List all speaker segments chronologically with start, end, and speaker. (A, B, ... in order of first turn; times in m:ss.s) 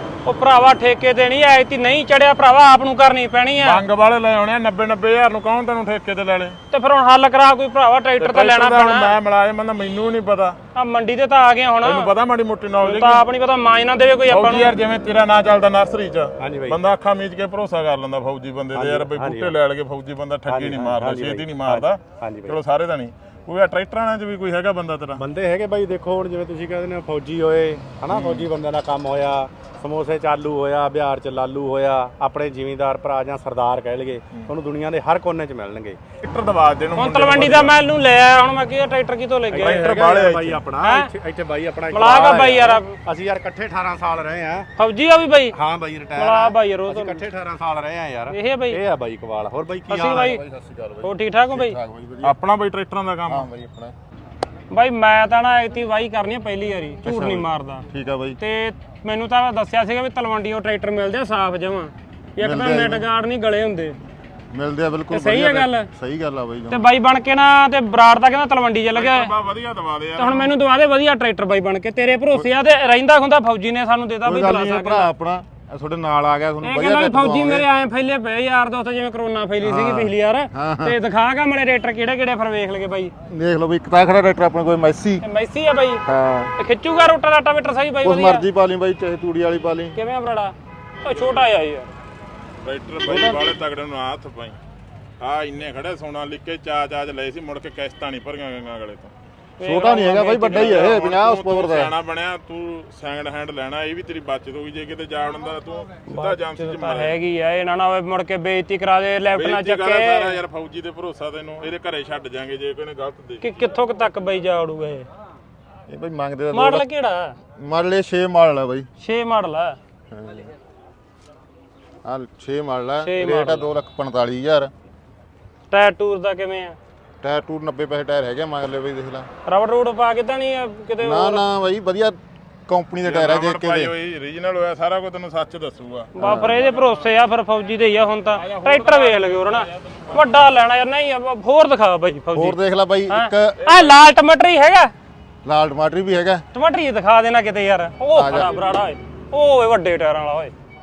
0:00.2-0:03.8 A
0:03.6-0:06.6 B
0:06.7-0:09.1 A
0:08.2-0:10.6 B
0:10.7-0:12.1 A
0:11.8-0:13.2 B
0:12.8-0:14.8 A
0:14.3-0:25.2 B
0:16.4-0:16.8 C
0:18.7-0:19.6 C
0:20.5-0:22.6 C
0:25.2-0:36.0 C
0:28.1-0:28.5 B
0:36.2-0:37.8 B
0:37.0-0:40.0 A
0:39.5-0:44.7 C
0:39.6-0:40.6 B
0:40.8-0:41.1 A
0:41.9-0:42.9 A
0:44.8-0:45.6 A
0:45.5-0:50.4 C
0:46.1-0:47.2 A
0:48.3-0:48.8 A
0:49.9-0:50.4 A
0:50.1-0:52.4 D
0:51.0-0:51.8 A
0:52.2-0:53.5 B
0:53.3-0:53.9 D
0:54.7-0:57.8 A
0:57.0-0:58.4 D
0:58.4-1:04.0 A
1:02.4-1:03.1 D
1:04.5-1:06.8 D
1:05.1-1:05.9 A
1:06.7-1:09.3 A
1:08.9-1:10.5 B
1:10.2-1:15.1 A
1:14.2-1:17.6 D
1:16.6-1:23.1 A
1:19.6-1:21.0 D
1:23.3-1:25.2 D
1:25.2-1:26.0 A
1:26.0-1:26.5 D
1:26.6-1:28.4 A
1:28.0-1:29.9 D
1:29.9-1:31.9 A
1:31.1-1:31.5 B
1:32.6-1:34.6 B
1:33.0-1:33.5 D
1:35.2-1:39.1 B
1:39.6-1:41.2 A
1:39.6-1:41.9 D
1:40.5-1:47.2 B
1:46.1-1:50.4 A
1:49.3-1:53.5 B
1:53.4-1:55.1 A
1:55.9-1:56.8 D
1:56.5-1:57.4 A
1:57.6-1:58.9 D
1:59.0-1:59.8 A
2:00.1-2:00.5 D
2:02.0-2:04.7 D
2:03.0-2:03.6 A
2:05.7-2:06.8 A
2:07.2-2:09.3 D
2:09.4-2:11.4 A
2:11.0-2:13.9 D
2:13.0-2:17.1 B
2:16.1-2:22.6 A
2:16.2-2:16.7 D
2:18.3-2:20.4 B
2:22.3-2:23.6 D
2:23.1-2:24.9 A
2:23.6-2:23.9 B
2:25.4-2:26.4 D
2:26.5-2:30.5 A
2:28.1-2:28.6 D